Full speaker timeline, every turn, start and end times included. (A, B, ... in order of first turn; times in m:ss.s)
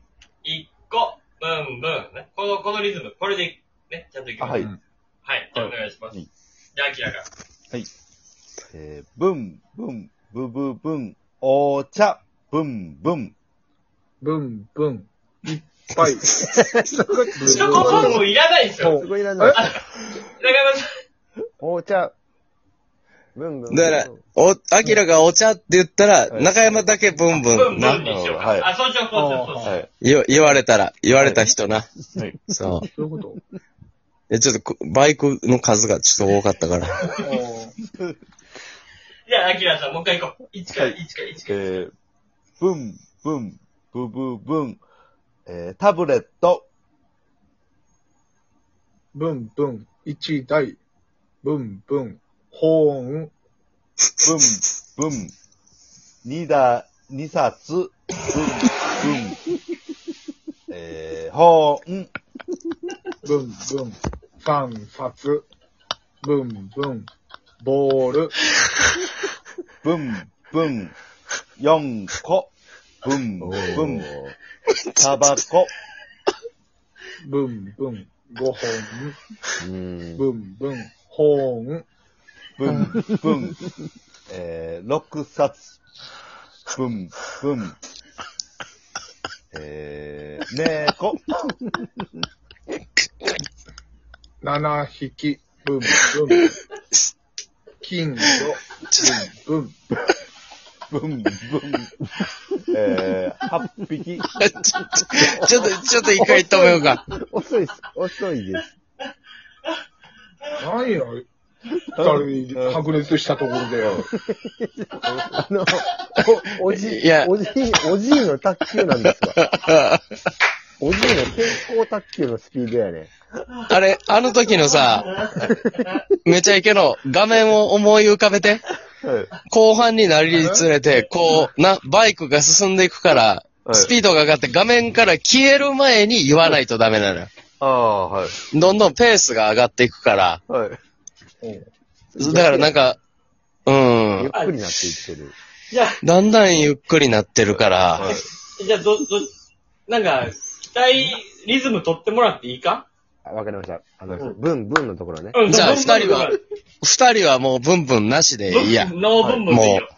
0:00.4-0:04.7 A
0:04.4-0:04.7 B
0:05.2-0:06.2 A
0:06.7-0:07.3 A
0:08.7-0:13.3 B
0:14.2-0:18.3 C
0:16.3-0:18.3 D
0:17.4-0:21.0 A
0:18.8-0:19.7 C
0:18.8-0:19.7 D
0:21.6-0:22.1 D
0:23.3-0:24.2 D
0:23.7-0:28.0 E
0:26.3-0:26.9 B
0:27.4-0:29.8 A
0:27.8-0:28.7 B
0:29.1-0:29.8 C
0:30.0-0:31.9 E
0:32.5-0:32.8 E
0:32.8-0:33.4 C
0:34.3-0:37.1 E
0:37.2-0:37.7 C
0:39.2-0:41.8 A
0:40.7-0:41.9 B
0:42.6-0:44.8 B
0:45.5-0:46.6 B
0:49.1-0:50.8 C
0:51.4-0:53.3 C
0:54.2-0:55.3 B
0:56.2-0:59.5 B
1:00.7-1:02.1 B
1:03.2-1:05.4 C
1:06.2-1:07.1 C
1:07.6-1:08.3 C
1:09.8-1:10.9 B
1:11.6-1:12.5 B
1:13.0-1:14.1 B
1:13.4-1:14.3 D
1:14.7-1:15.3 E
1:15.0-1:15.7 B
1:17.2-1:19.2 C
1:19.6-1:20.2 D
1:20.2-1:21.8 C
1:22.6-1:23.6 B
1:22.9-1:23.2 D
1:24.3-1:25.8 B
1:26.7-1:27.8 B
1:29.5-1:31.4 B
1:34.4-1:36.6 C
1:36.0-1:36.3 E
1:37.8-1:39.8 C
1:38.9-1:39.2 E
1:40.9-1:41.9 B
1:42.2-1:42.6 D
1:42.7-1:44.3 B
1:44.3-1:47.0 E
1:45.0-1:48.7 D
1:50.5-1:51.2 C
1:52.0-1:52.8 B
1:52.0-1:54.0 C
1:54.0-1:59.4 D
1:55.0-1:55.4 B
1:56.6-1:57.3 E
1:59.0-2:00.0 E
2:00.8-2:03.1 D
2:03.7-2:05.2 E
2:05.3-2:06.0 D
2:06.2-2:08.6 E
2:09.0-2:09.3 B
2:09.4-2:17.3 E
2:10.3-2:10.6 C
2:13.6-2:13.9 B
2:17.6-2:18.4 B
2:18.5-2:20.4 E
2:20.5-2:20.8 B
2:21.4-2:21.7 C
2:22.2-2:22.8 D
2:22.2-2:23.0 E
2:23.6-2:24.3 E
2:24.2-2:25.3 D
2:25.7-2:26.0 A
2:26.0-2:28.1 E
2:27.9-2:28.2 B
2:28.1-2:29.3 A
2:29.9-2:32.8 A
2:33.2-2:35.7 D
2:35.3-2:36.4 A
2:35.4-2:38.9 E
2:38.5-2:39.9 A
2:39.5-2:39.8 E